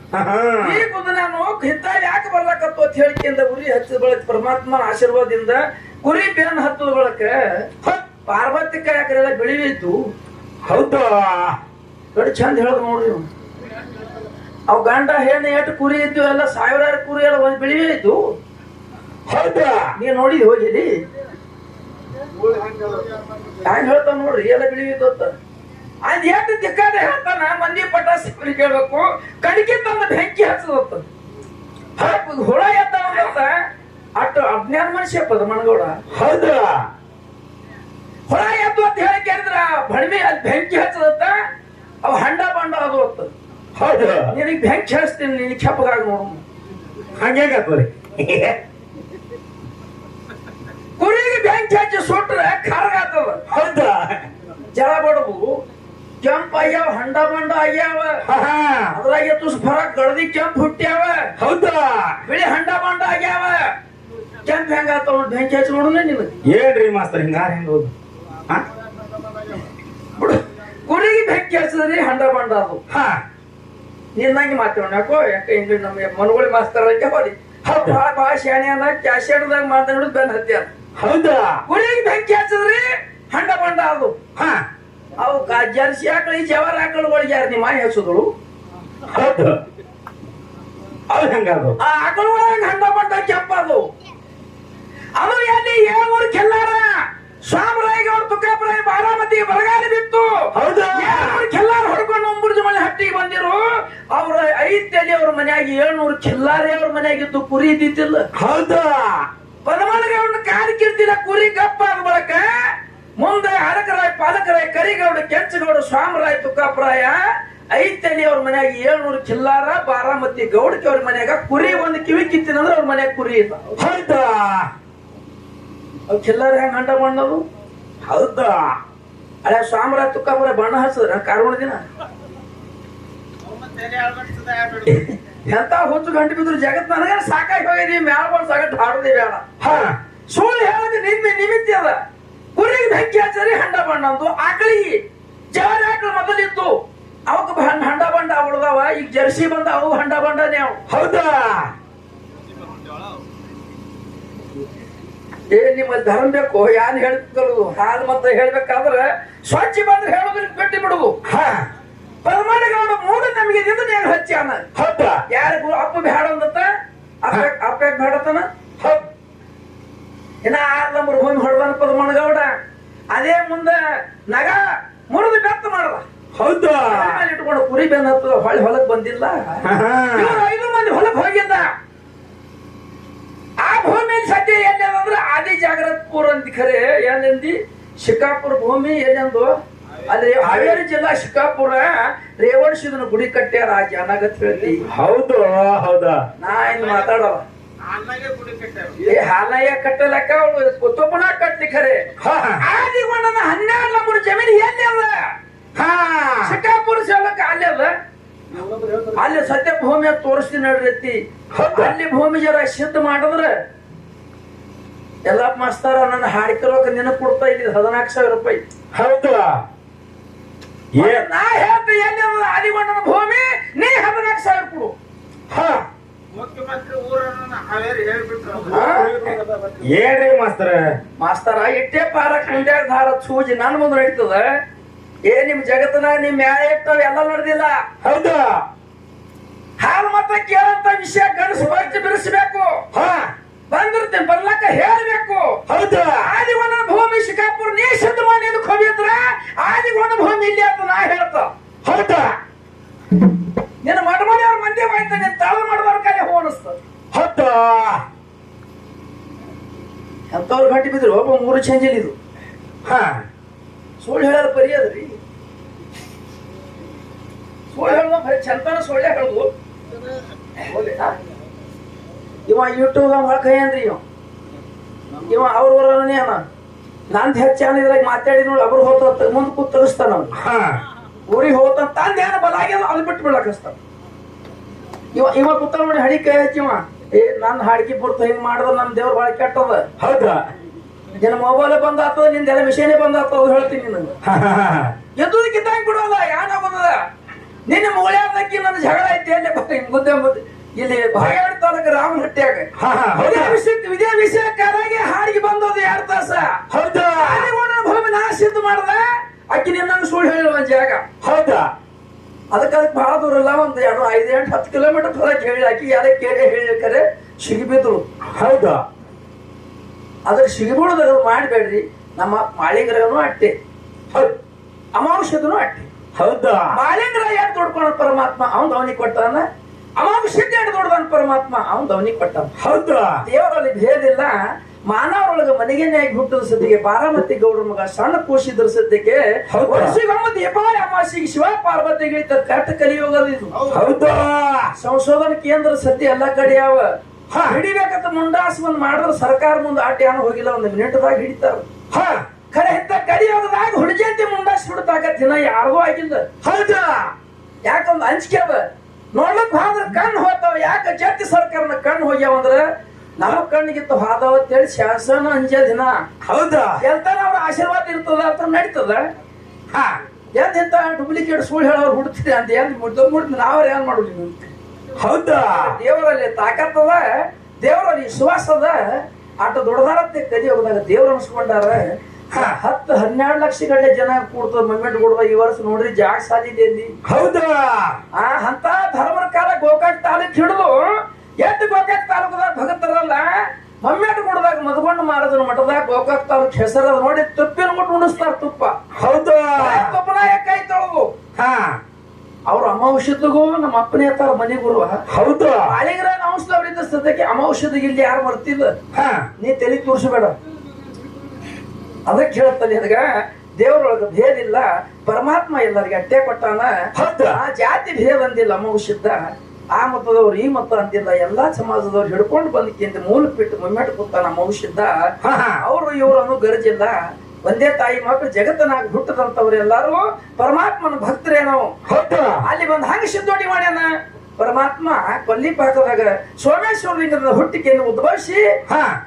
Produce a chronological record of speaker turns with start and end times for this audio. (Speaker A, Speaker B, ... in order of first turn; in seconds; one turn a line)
Speaker A: 0.1-0.7
Speaker B: 0.6-7.7
Speaker B: 8.2-10.0
Speaker A: 10.6-11.6
Speaker B: 12.1-13.3
Speaker B: 14.7-18.3
Speaker A: 19.3-19.9
Speaker B: 20.0-20.9
Speaker C: 22.4-23.0
Speaker B: 23.6-25.3
Speaker B: 26.0-31.0
Speaker B: 32.0-33.6
Speaker B: 34.1-36.0
Speaker A: 36.1-36.8
Speaker B: 38.3-41.4
Speaker B: 42.0-43.3
Speaker A: 43.8-44.3
Speaker B: 44.3-46.4
Speaker A: 47.2-48.5
Speaker B: 51.0-53.4
Speaker A: 53.5-54.2
Speaker B: 54.7-55.6
Speaker B: 56.2-58.2
Speaker A: 58.3-58.9
Speaker B: 58.9-61.3
Speaker A: 61.4-62.1
Speaker B: 62.2-63.7
Speaker B: 64.4-66.3
Speaker A: 66.4-67.9
Speaker B: 70.2-72.8
Speaker A: 72.9-73.2
Speaker B: 74.1-80.7
Speaker A: 77.7-77.9
Speaker A: 81.0-81.6
Speaker B: 81.7-84.2
Speaker A: 84.4-84.6
Speaker B: 85.2-88.3
Speaker A: 89.1-89.5
Speaker A: 91.1-91.7
Speaker B: 91.8-93.9
Speaker B: 95.2-108.3
Speaker A: 100.5-101.3
Speaker A: 108.4-109.2
Speaker B: 109.6-112.5
Speaker B: 113.2-117.2
Speaker B: 117.7-123.8
Speaker A: 123.8-124.7
Speaker B: 126.1-127.4
Speaker A: 128.1-128.7
Speaker B: 129.4-131.8
Speaker C: 133.4-135.1
Speaker B: 135.4-139.4
Speaker A: 139.6-139.9
Speaker B: 140.3-142.0
Speaker B: 142.6-146.8
Speaker B: 147.3-150.8
Speaker A: 150.9-151.7
Speaker C: 152.7-153.1
Speaker B: 155.5-161.2
Speaker A: 161.3-161.6
Speaker B: 162.2-164.7
Speaker A: 164.8-165.2
Speaker B: 165.3-166.7
Speaker B: 167.2-168.5
Speaker B: 170.4-172.5
Speaker B: 173.1-176.1
Speaker A: 176.4-177.0
Speaker B: 176.9-181.7
Speaker A: 179.7-180.2
Speaker B: 183.6-194.8
Speaker A: 194.9-196.2
Speaker B: 196.4-197.4
Speaker C: 196.7-197.1
Speaker C: 197.8-199.1
Speaker B: 199.1-202.0
Speaker A: 202.2-202.6
Speaker B: 202.6-205.2
Speaker A: 205.8-206.5
Speaker B: 206.4-207.9
Speaker C: 208.5-209.2
Speaker B: 209.1-211.2
Speaker A: 211.6-211.9
Speaker B: 211.7-213.6
Speaker B: 215.2-218.6
Speaker A: 218.9-219.6
Speaker B: 220.9-224.9
Speaker A: 221.0-221.2
Speaker A: 225.5-225.8
Speaker C: 226.3-229.8
Speaker B: 228.7-229.1
Speaker A: 229.8-230.8
Speaker B: 231.2-234.5
Speaker B: 235.2-237.8
Speaker A: 238.0-238.6
Speaker B: 239.8-242.8
Speaker A: 242.9-243.3
Speaker B: 243.7-245.6
Speaker A: 245.7-246.1
Speaker B: 246.2-251.5
Speaker A: 251.9-252.3
Speaker B: 253.8-256.8
Speaker A: 257.1-258.0
Speaker B: 260.3-262.1
Speaker A: 262.9-263.2
Speaker B: 264.0-265.1
Speaker B: 267.7-269.5
Speaker B: 270.7-271.1
Speaker B: 272.5-274.0
Speaker B: 275.2-276.4
Speaker B: 277.1-280.3
Speaker A: 280.4-280.8
Speaker B: 281.3-283.8
Speaker B: 285.1-289.9
Speaker A: 290.0-290.4
Speaker B: 291.2-294.1
Speaker A: 294.3-294.9
Speaker B: 295.2-297.0
Speaker B: 297.7-306.6
Speaker A: 302.8-303.5
Speaker A: 306.7-307.3
Speaker B: 307.2-311.1
Speaker A: 311.2-311.7
Speaker B: 312.5-318.1
Speaker A: 318.4-318.8
Speaker B: 320.2-323.5
Speaker B: 324.9-325.9
Speaker A: 326.2-326.7
Speaker B: 326.7-329.4
Speaker B: 330.0-332.5
Speaker A: 332.6-333.1
Speaker B: 333.2-343.5
Speaker A: 339.6-339.9
Speaker C: 343.6-343.8
Speaker A: 343.7-344.7
Speaker B: 344.8-346.9
Speaker B: 347.4-351.7
Speaker A: 351.9-352.2
Speaker B: 352.5-356.3
Speaker A: 356.4-357.1
Speaker B: 357.6-366.0
Speaker A: 366.3-366.7
Speaker B: 366.8-369.1
Speaker B: 370.3-374.5
Speaker A: 375.0-375.5
Speaker B: 375.5-377.1
Speaker B: 377.6-386.9
Speaker A: 387.1-387.9
Speaker B: 388.1-390.8
Speaker B: 391.4-398.8
Speaker A: 399.0-399.7
Speaker B: 399.6-401.1
Speaker A: 401.4-401.8
Speaker B: 402.5-405.0
Speaker A: 405.2-405.6
Speaker B: 405.6-408.7
Speaker A: 408.9-409.2
Speaker B: 409.4-410.4
Speaker B: 412.1-431.8
Speaker A: 417.0-417.3
Speaker A: 431.9-432.3
Speaker B: 432.4-438.6